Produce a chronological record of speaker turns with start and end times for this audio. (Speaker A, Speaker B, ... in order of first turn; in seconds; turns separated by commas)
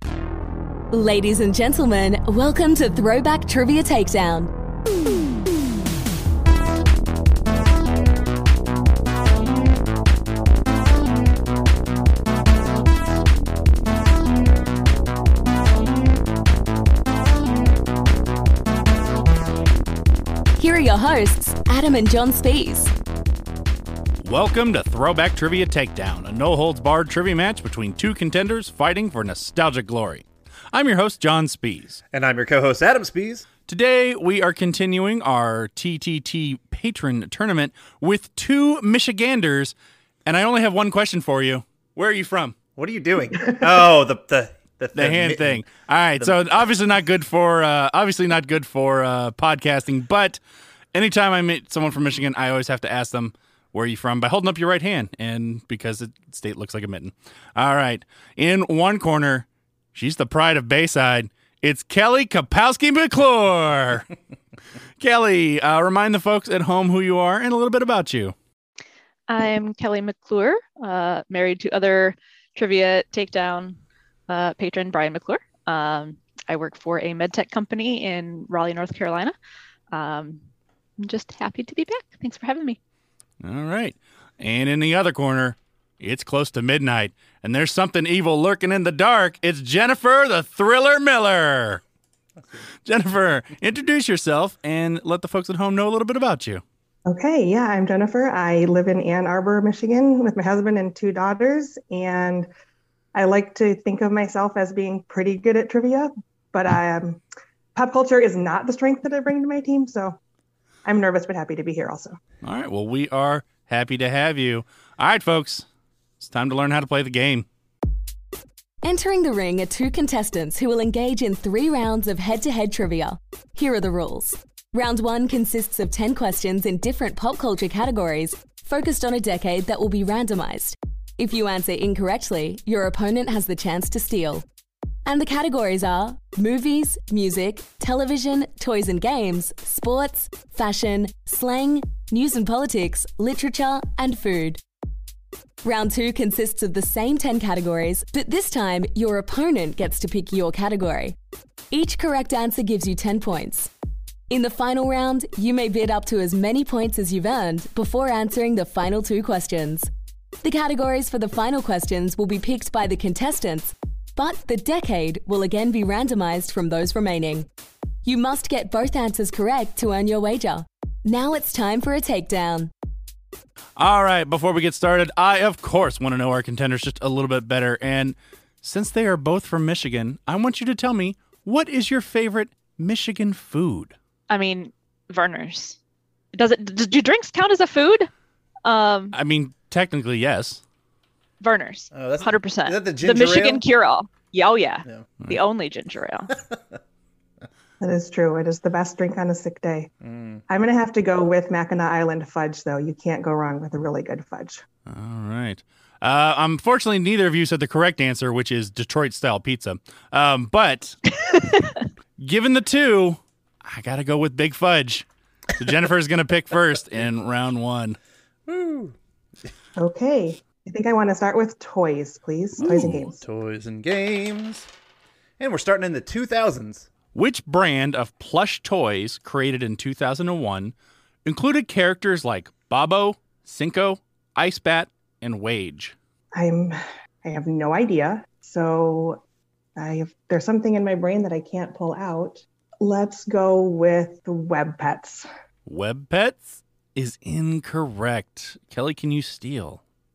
Speaker A: 0.9-4.5, Speaker A: 20.6-22.9, Speaker B: 24.2-32.0, Speaker C: 32.1-33.5, Speaker B: 33.7-39.7, Speaker B: 40.2-42.5, Speaker C: 42.8-46.4, Speaker B: 44.9-50.4, Speaker B: 50.9-64.1, Speaker B: 65.0-68.3, Speaker D: 69.3-79.3, Speaker D: 79.9-80.4, Speaker D: 81.0-82.8, Speaker B: 83.4-91.8, Speaker B: 92.8-96.6, Speaker E: 97.0-102.5, Speaker E: 103.1-107.2, Speaker E: 107.7-110.2, Speaker E: 110.8-112.2, Speaker B: 112.4-115.7, Speaker B: 116.2-117.5, Speaker A: 118.8-134.4, Speaker A: 135.1-144.6, Speaker A: 145.6-151.2, Speaker A: 151.7-153.7, Speaker A: 154.3-159.9, Speaker A: 160.4-167.5, Speaker A: 168.0-172.7, Speaker B: 173.8-183.9, Speaker D: 184.3-185.8, Speaker D: 186.3-188.1, Speaker D: 188.6-189.2, Speaker B: 189.1-190.6, Speaker D: 191.4-196.3, Speaker C: 191.9-193.6, Speaker E: 197.8-199.9, Speaker C: 200.0-200.4, Speaker E: 200.5-204.6, Speaker B: 204.9-211.0, Speaker D: 211.3-211.8, Speaker B: 212.2-215.1, Speaker B: 215.6-218.0, Speaker C: 218.5-218.9, Speaker E: 219.8-223.2, Speaker C: 222.6-224.7, Speaker C: 225.4-226.9, Speaker B: 227.1-230.7, Speaker B: 231.2-235.9, Speaker E: 236.3-239.2, Speaker E: 239.8-245.2, Speaker B: 245.7-249.8